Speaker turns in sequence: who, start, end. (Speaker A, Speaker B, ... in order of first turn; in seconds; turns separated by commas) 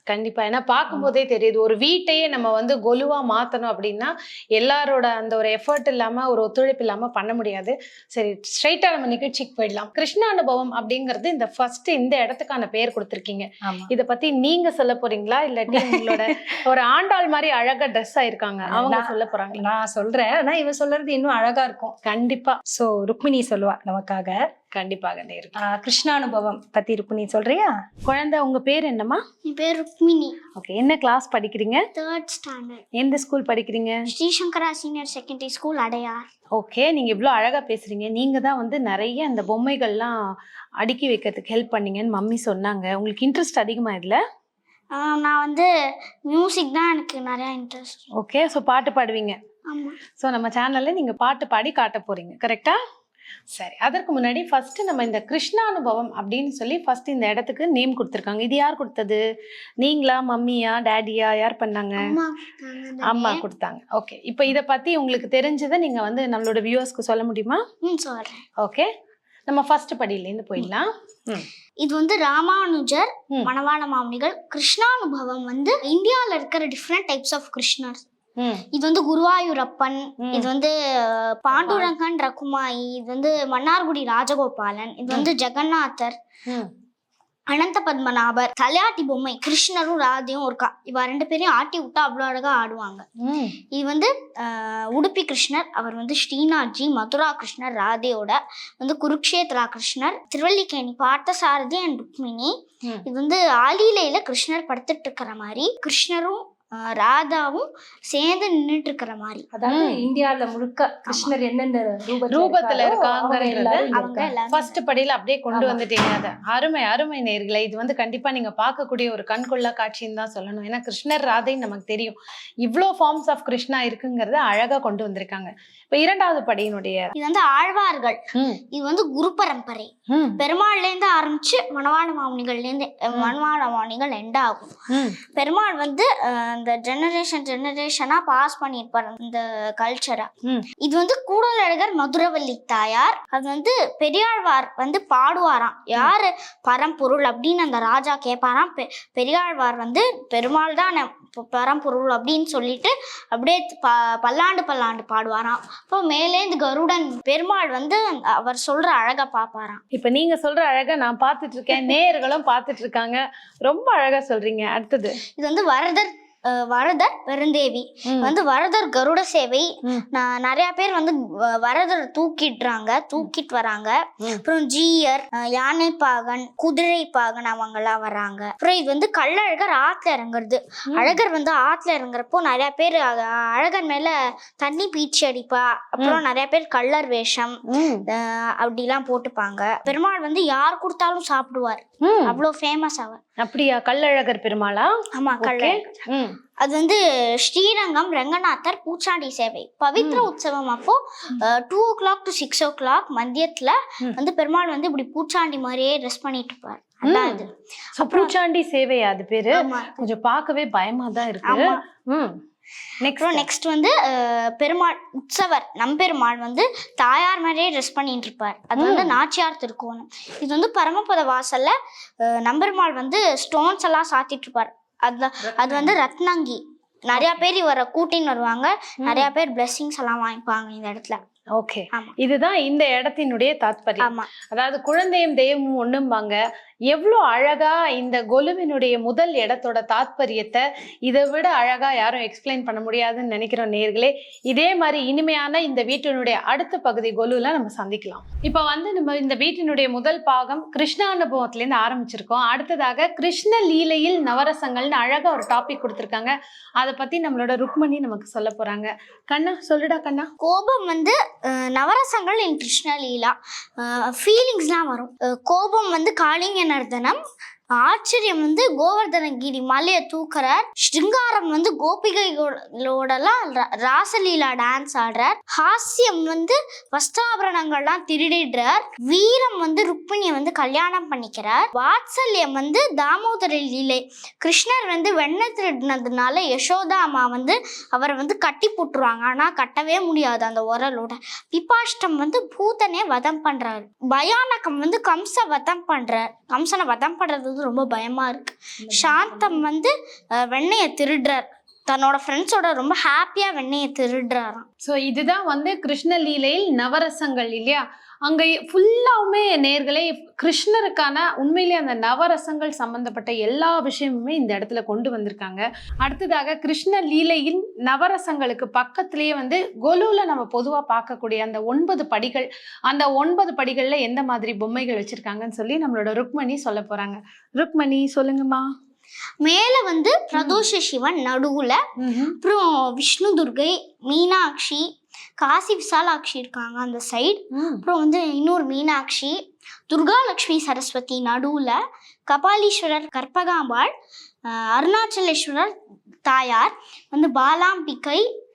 Speaker A: 0.1-19.6, Speaker B: 13.7-13.9, Speaker B: 15.7-16.4, Speaker B: 18.7-21.9, Speaker A: 22.1-22.6, Speaker B: 22.7-24.4, Speaker A: 24.7-25.6, Speaker B: 25.6-27.7, Speaker A: 28.1-29.2, Speaker C: 29.4-30.4, Speaker A: 30.6-31.9, Speaker C: 31.9-32.8, Speaker A: 33.0-34.1, Speaker C: 34.1-36.3, Speaker A: 36.5-40.2, Speaker A: 40.8-44.2, Speaker C: 44.9-45.7, Speaker C: 46.3-48.0, Speaker A: 48.2-49.4, Speaker C: 49.7-50.0, Speaker A: 50.2-52.8, Speaker A: 53.5-59.2, Speaker A: 59.8-62.2, Speaker C: 62.0-63.4, Speaker A: 63.0-67.7, Speaker C: 67.8-68.5, Speaker A: 68.6-68.9, Speaker A: 69.5-71.5, Speaker C: 71.8-78.0, Speaker A: 78.4-78.7, Speaker C: 78.7-86.2, Speaker A: 80.2-80.5, Speaker A: 81.5-81.9, Speaker C: 87.5-93.1, Speaker A: 93.2-93.6, Speaker C: 93.7-109.5, Speaker B: 109.5-114.3, Speaker A: 109.7-110.0, Speaker A: 112.3-113.9, Speaker C: 113.9-114.8, Speaker A: 114.5-127.1, Speaker B: 115.5-115.8, Speaker C: 127.2-159.8, Speaker A: 128.3-128.6, Speaker A: 130.1-130.4, Speaker A: 134.9-135.2, Speaker A: 159.9-165.2, Speaker C: 165.4-193.2, Speaker A: 168.1-168.3, Speaker A: 180.9-181.2, Speaker A: 187.7-188.0, Speaker A: 192.0-192.4, Speaker A: 193.4-196.4, Speaker C: 195.1-195.9, Speaker C: 196.6-208.3, Speaker A: 200.0-200.3, Speaker A: 207.1-207.4, Speaker A: 208.0-212.4, Speaker C: 209.5-210.0, Speaker C: 211.4-211.8, Speaker A: 213.0-213.5, Speaker C: 213.1-231.2, Speaker A: 218.8-219.2, Speaker A: 227.2-227.4, Speaker A: 231.6-260.3, Speaker C: 234.0-234.3, Speaker C: 260.4-267.2, Speaker C: 267.8-304.7, Speaker B: 298.8-299.7, Speaker A: 304.9-328.7, Speaker C: 329.4-331.8, Speaker A: 330.3-330.6, Speaker A: 332.0-332.4, Speaker C: 332.4-343.9, Speaker A: 337.5-337.8, Speaker C: 344.5-345.7, Speaker C: 346.3-348.3